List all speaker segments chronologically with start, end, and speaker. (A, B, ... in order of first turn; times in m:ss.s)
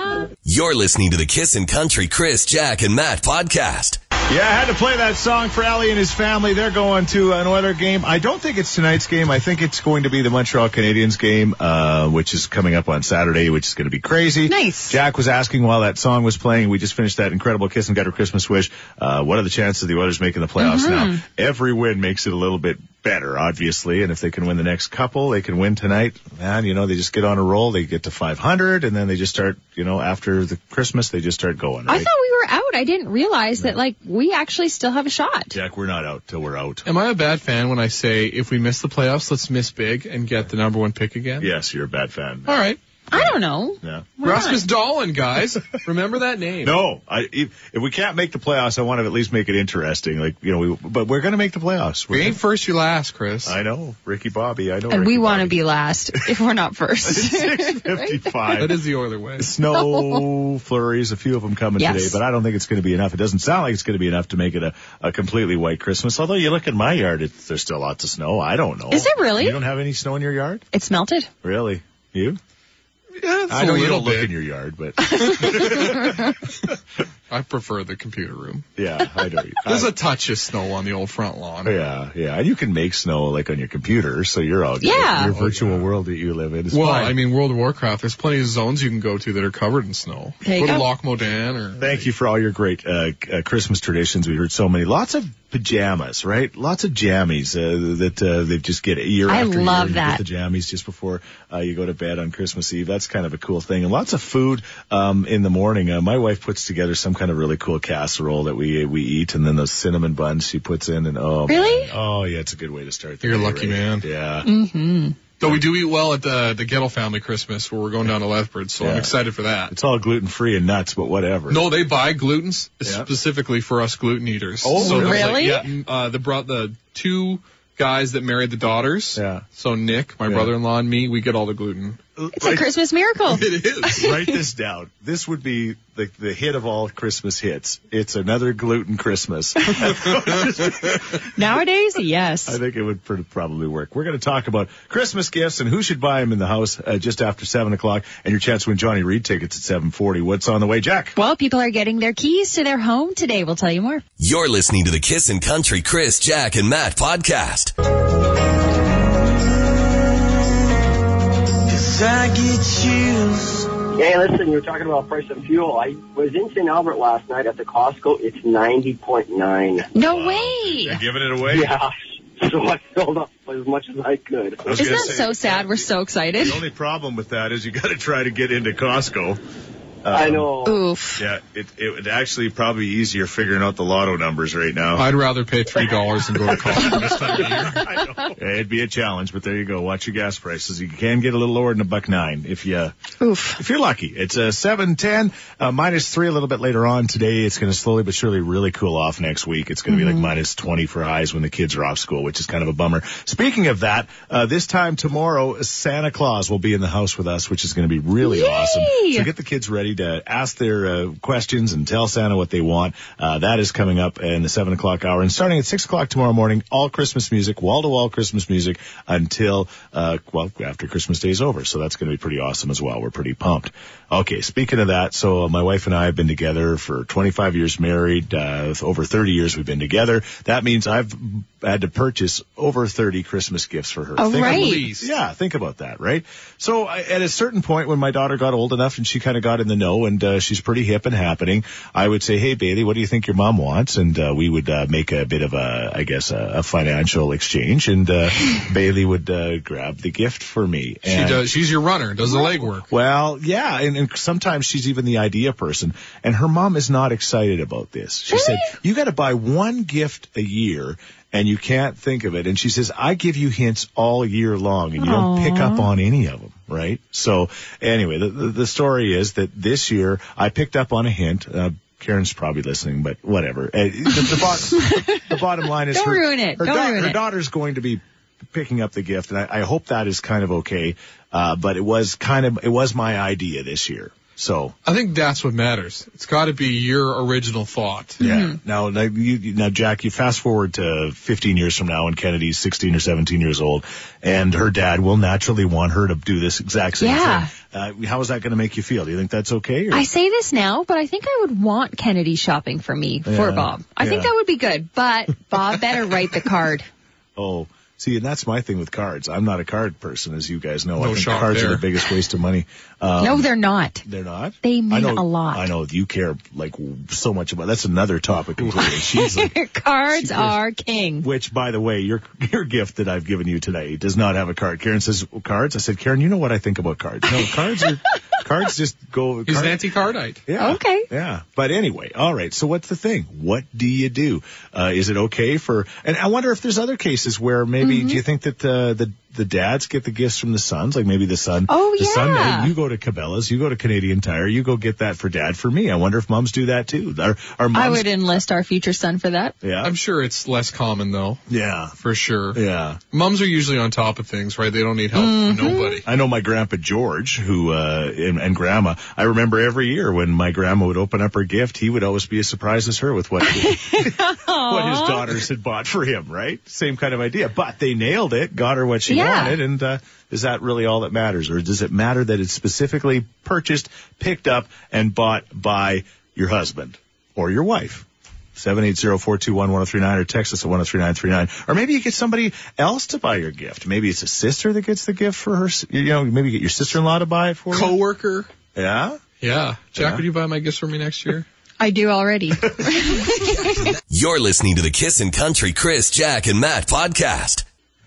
0:00.4-0:04.0 A
0:04.3-0:32.1 B
0:14.5-0:15.0 C
0:20.6-0:21.2 C
0:31.9-0:35.6 C
0:35.5-0:36.9 B
0:36.9-0:41.5 D
0:41.4-0:44.1 B
0:42.5-0:42.8 D
0:43.1-0:44.7 C
0:44.2-0:46.8 D
0:46.6-0:52.4 B
0:52.1-0:53.6 D
0:53.4-0:55.6 B
0:54.9-0:58.3 C
0:57.0-0:58.8 B
0:58.6-0:59.5 D
0:59.4-1:10.6 B
0:59.7-1:00.3 C
1:01.8-1:02.2 C
1:08.9-1:09.6 C
1:10.7-1:11.3 C
1:11.4-1:12.4 B
1:13.2-1:14.3 D
1:13.5-1:16.4 B
1:15.1-1:16.3 C
1:15.4-1:16.0 D
1:17.3-1:18.7 D
1:18.8-1:20.0 B
1:19.6-1:21.8 D
1:21.6-1:27.2 B
1:24.8-1:25.4 C
1:25.3-1:25.9 D
1:26.7-1:32.0 D
1:30.4-1:30.9 C
1:31.8-1:54.5 B
1:39.3-1:40.2 C
1:51.5-1:51.9 C
1:53.2-1:54.1 D
1:54.4-1:55.2 C
1:55.4-1:59.7 D
1:55.4-1:55.7 B
1:58.8-1:59.1 B
1:59.7-2:01.7 B
2:01.5-2:12.0 D
2:04.6-2:05.4 B
2:04.8-2:05.7 C
2:09.2-2:09.4 B
2:10.2-2:10.5 B
2:12.2-2:12.7 B
2:12.4-2:14.4 C
2:13.3-2:14.0 D
2:13.9-2:21.2 B
2:21.3-2:22.6 C
2:22.5-2:31.2 B
2:31.2-2:34.0 C
2:34.2-2:37.7 A
2:41.7-2:49.9 E
2:49.9-2:51.0 C
2:50.0-2:51.7 B
2:51.5-2:55.0 E
2:54.6-2:59.4 B
2:54.7-2:56.6 C
3:00.0-3:00.5 B
3:00.1-3:00.8 E
3:00.6-3:01.2 C
3:01.2-3:05.1 B
3:05.0-3:07.9 D
3:06.4-3:12.9 B
3:13.2-3:13.6 C
3:13.6-4:11.5 B
3:19.9-3:20.3 C
3:28.2-3:29.3 C
3:54.2-3:54.9 C
3:54.3-3:55.1 D
4:11.1-4:12.9 D
4:12.9-4:44.8 B
4:18.3-4:18.7 C
4:25.0-4:25.9 C
4:34.2-4:35.4 C
4:35.9-4:37.2 C
4:44.8-4:48.2 D
4:48.2-5:00.1 B
4:48.2-4:48.6 C
4:57.0-4:57.5 C
4:59.9-5:06.9 C
5:03.2-5:04.3 B
5:07.4-5:13.5 B
5:11.0-5:11.9 D
5:13.2-5:14.0 C
5:14.0-5:19.6 B
5:14.6-5:15.7 C
5:18.8-5:21.3 C
5:20.1-5:20.6 B
5:21.2-5:48.4 B
5:29.5-5:30.4 D
5:30.6-5:31.1 C
5:37.8-5:38.2 C
5:41.7-5:42.7 C
5:47.7-5:49.6 C
5:49.6-5:50.0 B
5:49.8-5:51.4 D
5:51.5-5:52.0 B
5:52.0-5:56.1 D
5:52.5-5:53.0 B
5:55.2-5:56.0 C
5:56.0-6:28.0 B
6:03.4-6:05.4 C
6:09.1-6:09.6 C
6:27.7-6:28.5 D
6:28.8-6:29.2 B
6:29.4-6:31.5 D
6:29.9-6:30.2 B
6:31.8-6:33.9 C
6:32.6-6:33.1 B
6:33.8-6:37.6 A